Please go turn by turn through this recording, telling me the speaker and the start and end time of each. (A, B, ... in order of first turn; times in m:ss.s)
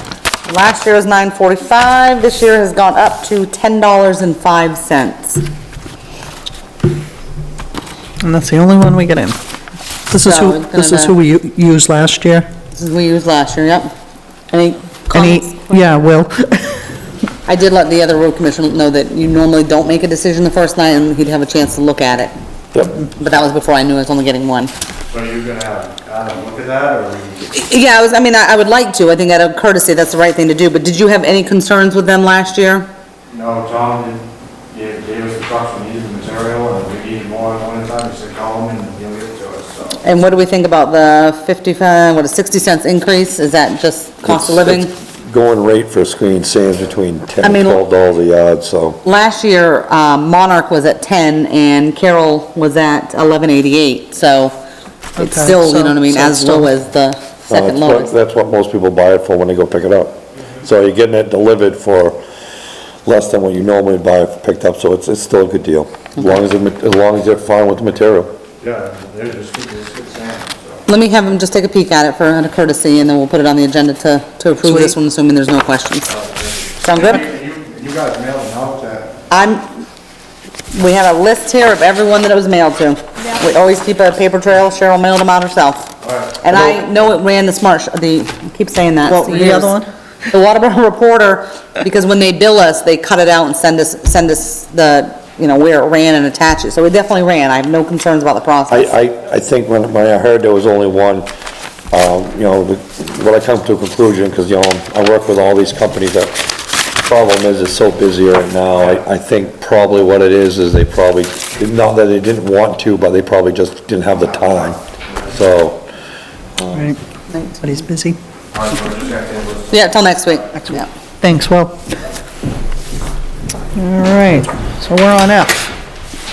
0:00.4-0:05.4 A
0:08.2-0:09.4 B
0:10.1-0:12.5 B
0:10.2-0:11.2 A
0:12.7-0:13.9 A
0:14.5-0:15.9 A
0:15.1-0:17.0 B
0:17.4-0:22.3 A
0:23.2-0:24.7 A
0:25.1-0:27.4 C
0:27.5-0:32.9 A
0:33.3-0:40.0 C
0:40.0-0:44.9 A
0:44.2-0:49.0 D
0:47.4-0:47.8 A
0:49.0-0:54.6 A
0:55.2-0:56.7 B
0:55.2-0:58.1 A
0:57.5-1:02.2 D
1:03.0-1:08.3 D
1:08.6-1:10.8 C
1:10.9-1:16.1 A
1:14.7-1:14.9 B
1:16.2-1:19.2 C
1:16.8-1:17.2 A
1:19.3-1:19.7 A
1:20.7-1:25.9 A
1:26.0-1:26.4 C
1:26.4-1:29.7 A
1:29.0-1:29.9 B
1:30.3-1:38.9 A
1:38.7-1:41.3 D
1:41.9-1:46.4 D
1:47.0-1:55.8 D
1:54.2-1:55.3 C
1:56.6-1:56.9 D
1:56.7-1:57.0 B
1:57.3-1:57.6 A
1:57.6-1:58.2 B
1:58.5-2:00.0 C
1:59.7-2:00.9 A
2:00.6-2:01.8 B
2:03.7-2:05.7 B